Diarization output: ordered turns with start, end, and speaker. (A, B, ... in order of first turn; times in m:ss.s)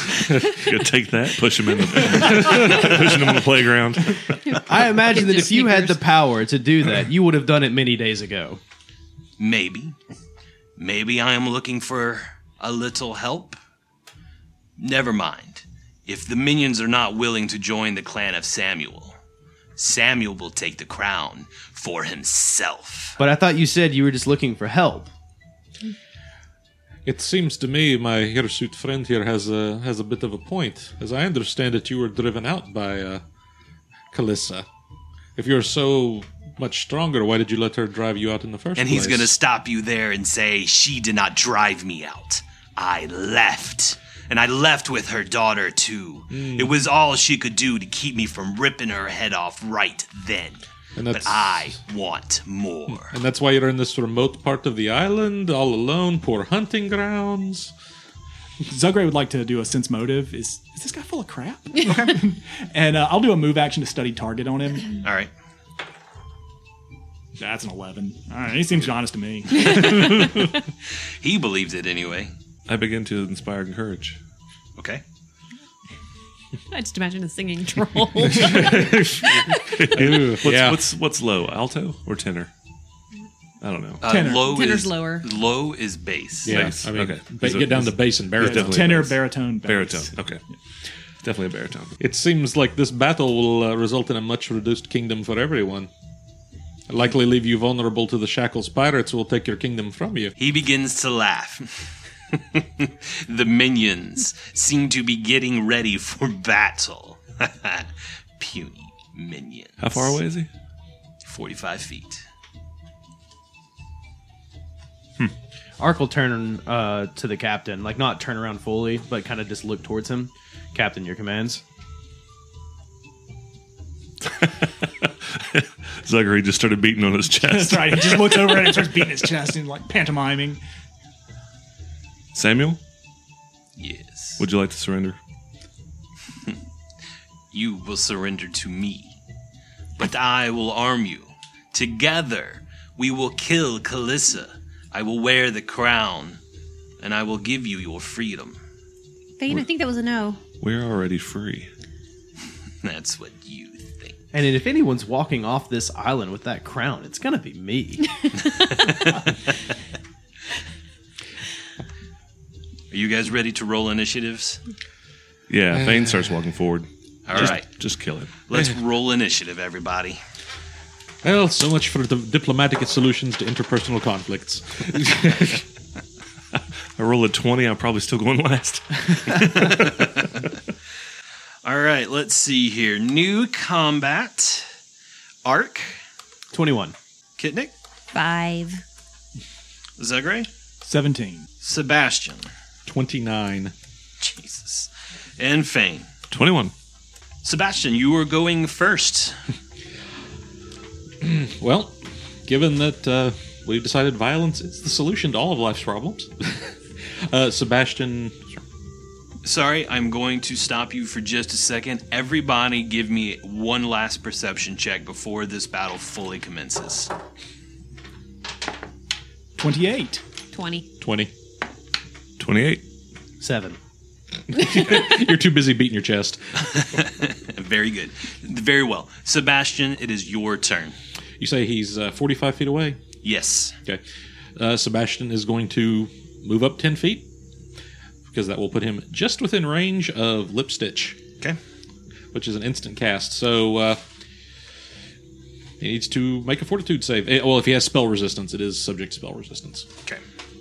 0:00.2-0:04.6 A
0:04.4-0:06.0 B
0:04.7-0:08.6 C
0:09.4-0:10.0 D
0:10.8-0:13.6 D
0:14.8-0:19.2 D
0:19.8-0:23.2 D
0:23.2-0:25.1 C
0:27.0-0:33.2 E
0:34.1-0:34.6 E
0:35.4-0:39.3 E
0:38.8-0:53.2 D
0:46.3-0:46.8 E
0:51.0-0:51.8 E
0:52.9-0:57.7 E
0:58.7-1:05.0 F
1:05.0-1:05.3 D
1:07.4-1:10.4 F
1:11.2-1:12.3 D
1:12.7-1:14.2 A
1:14.8-1:15.0 D
1:16.7-1:19.6 B
1:18.2-1:20.8 E
1:19.6-1:22.5 A
1:23.6-1:24.0 A
1:24.0-1:26.6 D
1:24.0-1:24.6 F
1:24.2-1:25.3 B
1:26.4-1:29.2 E
1:26.5-1:30.4 A
1:28.4-1:30.2 F
1:31.2-1:32.0 A
1:32.0-1:35.9 E
1:36.9-1:40.3 E
1:40.4-1:50.2 D
1:49.8-1:50.5 A
1:51.2-1:52.2 D
1:55.8-2:01.6 C
2:04.2-2:09.0 A
2:07.4-2:10.6 F
2:12.3-2:12.8 A
2:13.8-2:14.4 D
2:14.4-2:15.2 A
2:17.5-2:19.2 D
2:20.0-2:26.4 D
2:27.0-2:28.6 D
2:29.4-2:30.4 B
2:30.6-2:31.7 A
2:32.8-2:34.2 D
2:34.3-2:38.1 C
2:38.5-2:39.3 D
2:42.9-2:44.6 D
2:45.5-2:48.3 A
2:45.8-2:46.1 E
2:47.3-2:47.7 D
2:48.5-2:50.2 D
2:51.2-2:55.6 E
2:57.0-3:00.5 A
2:59.7-2:59.9 D
3:01.6-3:04.8 D
3:05.4-3:06.0 D
3:06.5-3:07.0 C
3:07.4-3:07.7 D
3:08.1-3:08.8 B
3:10.0-3:10.5 D
3:10.8-3:11.5 F
3:11.6-3:12.5 D
3:12.9-3:13.7 E
3:14.2-3:16.1 D
3:16.3-3:16.7 A
3:17.4-3:19.4 D
3:21.2-3:28.6 E
3:29.4-3:37.1 D
3:39.6-3:40.2 F
3:40.5-3:40.9 B
3:41.0-3:41.3 E
3:42.4-3:42.8 A
3:43.4-3:43.8 C
3:44.5-3:46.9 E
3:46.9-3:51.0 D
3:51.4-3:53.0 E
3:53.2-3:53.8 D
3:54.6-3:57.3 E
3:58.3-4:01.2 E
4:02.3-4:04.0 E
4:05.8-4:09.9 E